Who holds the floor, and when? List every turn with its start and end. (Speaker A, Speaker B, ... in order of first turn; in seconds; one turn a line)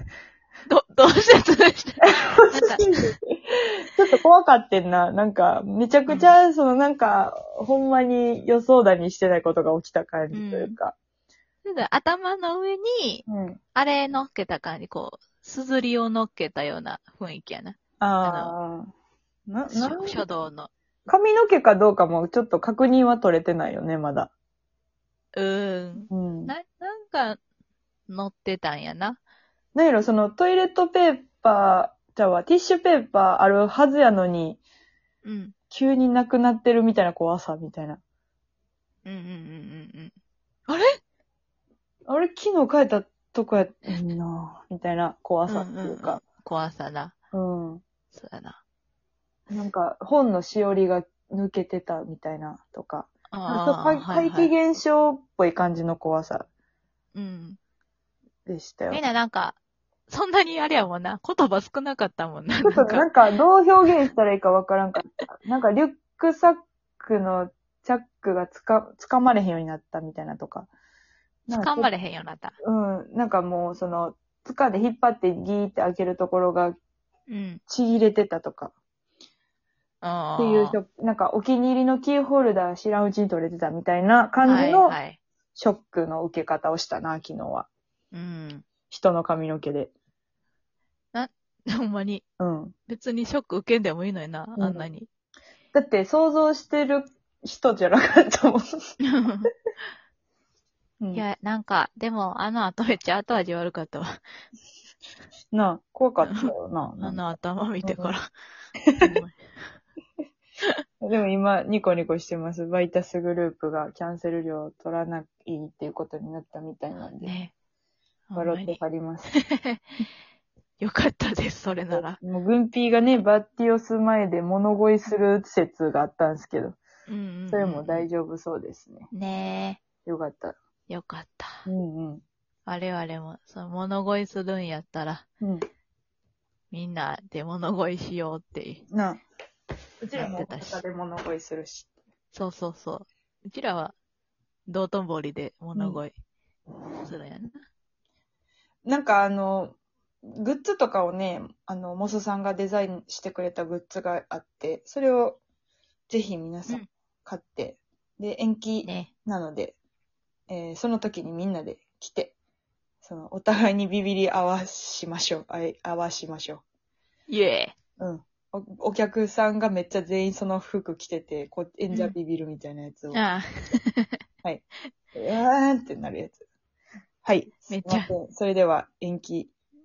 Speaker A: 0.7-3.1
Speaker B: 2.0-10.9
Speaker A: 6.1-6.4
Speaker A: 10.3-10.8
Speaker A: 11.7-18.5
Speaker B: 13.3-13.6
Speaker B: 18.0-18.9
Speaker B: 19.5-20.2
Speaker A: 19.7-20.7
Speaker B: 21.1-24.3
Speaker A: 25.4-27.4
Speaker B: 26.1-26.5
Speaker A: 28.1-29.2
Speaker B: 29.8-34.6
Speaker A: 35.2-35.5
Speaker B: 35.7-38.0
Speaker A: 39.0-40.1
Speaker A: 40.7-41.0
Speaker B: 42.1-46.2
Speaker A: 45.5-47.1
Speaker B: 47.3-47.8
Speaker A: 48.1-48.6
Speaker B: 49.5-56.5
Speaker A: 53.3-54.5
Speaker A: 57.1-57.6
Speaker B: 58.5-59.0
Speaker A: 58.9-59.6
Speaker A: 60.1-63.1
Speaker B: 62.6-70.7
Speaker B: 71.5-71.9
Speaker A: 71.5-72.6
Speaker B: 72.6-76.8
Speaker A: 77.3-77.6
Speaker B: 77.7-78.7
Speaker A: 80.0-80.8
Speaker B: 80.4-85.0
Speaker A: 84.4-85.2
Speaker B: 85.6-87.7
Speaker A: 88.1-88.7
Speaker B: 88.9-89.9
Speaker A: 91.1-92.2
Speaker B: 92.4-92.7
Speaker A: 92.9-95.1
Speaker B: 94.6-94.9
Speaker B: 95.7-98.7
Speaker A: 99.0-99.5
Speaker A: 101.1-104.2
Speaker B: 105.5-107.2
Speaker A: 106.2-108.3
Speaker B: 107.8-108.1
Speaker A: 109.0-109.4
Speaker B: 111.0-117.4
Speaker A: 117.2-117.5
Speaker A: 118.3-118.8
Speaker B: 118.3-119.3
Speaker A: 119.3-119.8
Speaker A: 120.8-122.2
Speaker B: 121.9-126.8
Speaker A: 127.1-128.1
Speaker B: 127.5-129.1
Speaker A: 129.1-129.8
Speaker B: 130.1-130.6
Speaker A: 130.9-131.7
Speaker B: 131.7-132.2
Speaker A: 132.7-135.2
Speaker A: 136.7-138.8
Speaker B: 138.9-139.2
Speaker B: 140.0-141.9
Speaker A: 140.2-140.8
Speaker A: 142.3-143.9
Speaker A: 144.7-146.2
Speaker B: 145.8-146.0
Speaker A: 147.0-147.6
Speaker B: 148.8-149.8
Speaker B: 150.4-155.4
Speaker B: 156.1-159.8
Speaker A: 158.8-159.1
Speaker B: 160.5-162.3
Speaker B: 163.0-166.6
Speaker A: 167.3-167.8
Speaker B: 168.0-173.2
Speaker A: 173.1-174.2
Speaker B: 175.1-176.4
Speaker B: 177.2-179.5
Speaker A: 177.7-178.1